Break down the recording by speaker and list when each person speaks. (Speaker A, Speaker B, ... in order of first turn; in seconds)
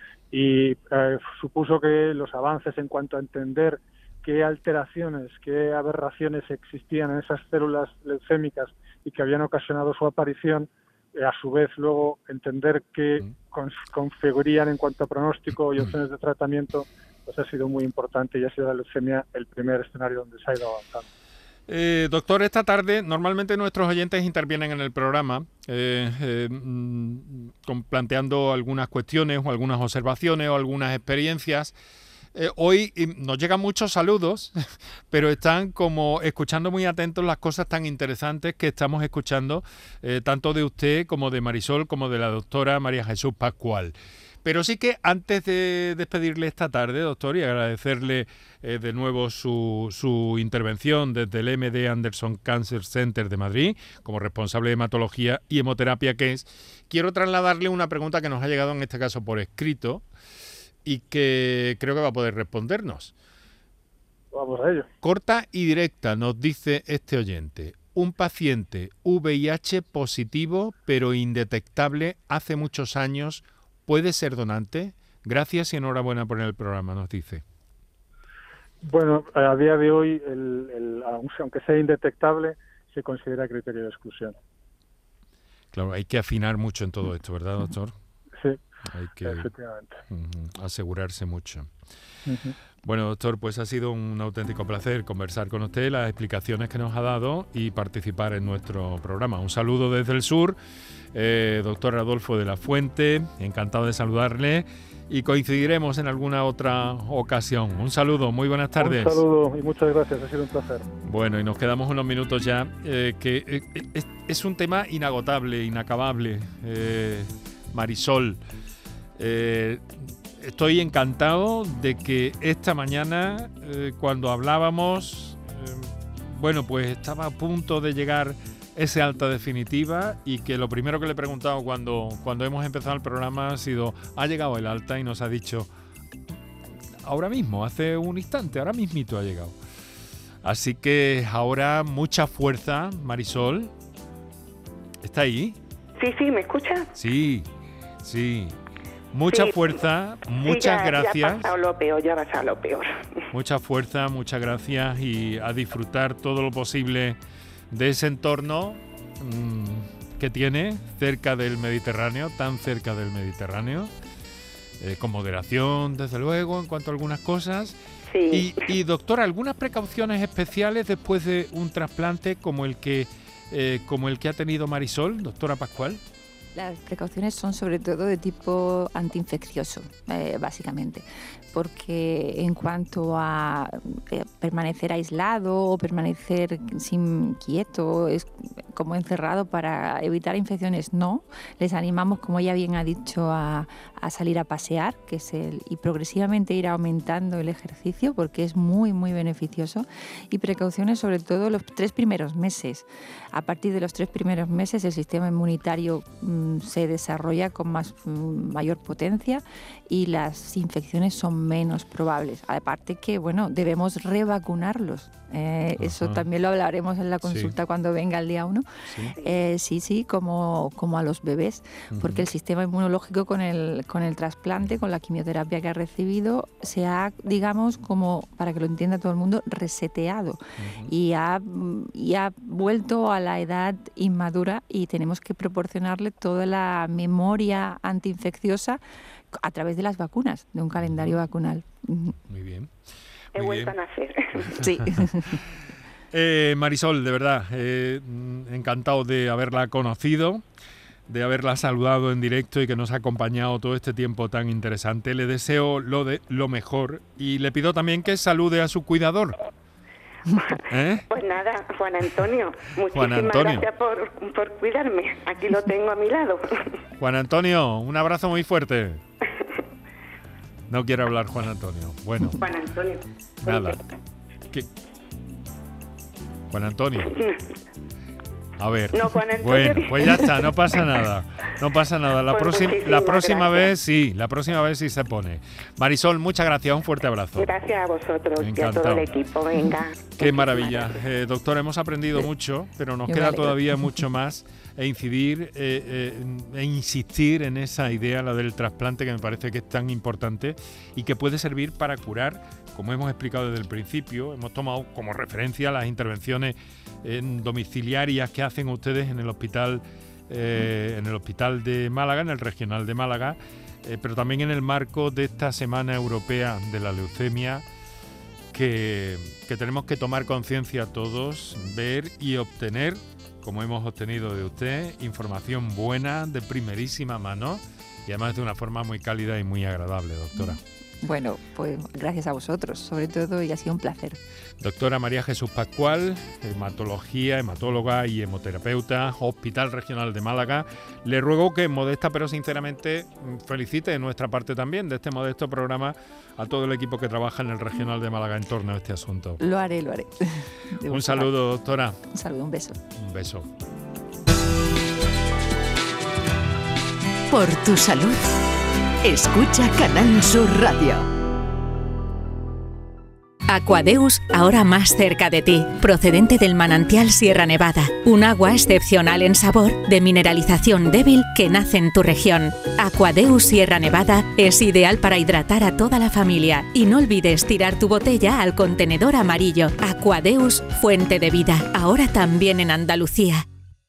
Speaker A: 0.3-21.1, 64.3-64.9, 78.8-84.4, 89.2-90.0, 92.3-92.5, 108.8-110.9
Speaker B: 21.7-31.8, 32.4-34.6, 35.1-43.9, 44.5-60.0, 60.9-63.1, 65.0-77.4, 85.7-87.9, 88.9-89.5, 90.1-91.7, 92.8-100.6, 101.1-109.2, 111.0-118.4, 119.2-119.8, 120.4-135.7, 137.0-139.6, 140.4-143.7, 145.0-145.6, 146.9-147.5, 148.0-148.6, 149.1-151.5, 153.3-157.2, 157.7-163.9, 164.8-167.8, 168.3-176.0, 215.8-216.2, 217.2-217.5, 221.9-222.3, 230.6-230.9, 240.8-241.1, 242.3-242.7, 243.3-243.7, 244.4-245.1, 246.1-250.4, 251.1-259.4, 260.7-261.1, 262.9-263.7, 267.0-269.0, 270.7-272.4, 273.4-273.8, 276.5-277.1, 278.6-287.5, 288.4-289.1, 290.2-317.6, 318.5-330.6, 334.6-349.4, 350.9-352.0, 353.0-353.5
Speaker C: 146.0-146.9, 149.3-149.7, 150.4-153.0, 168.1-168.6, 243.3-244.5, 261.1-266.7, 272.4-273.8, 277.1-277.4, 278.9-280.5, 282.3-283.7, 287.4-291.0
Speaker D: 176.6-218.7, 219.2-242.2, 244.6-245.4, 293.1-294.0, 330.4-334.2, 349.4-351.3, 352.1-352.8
Speaker E: 357.3-358.3, 359.0-361.1
Speaker F: 363.5-383.4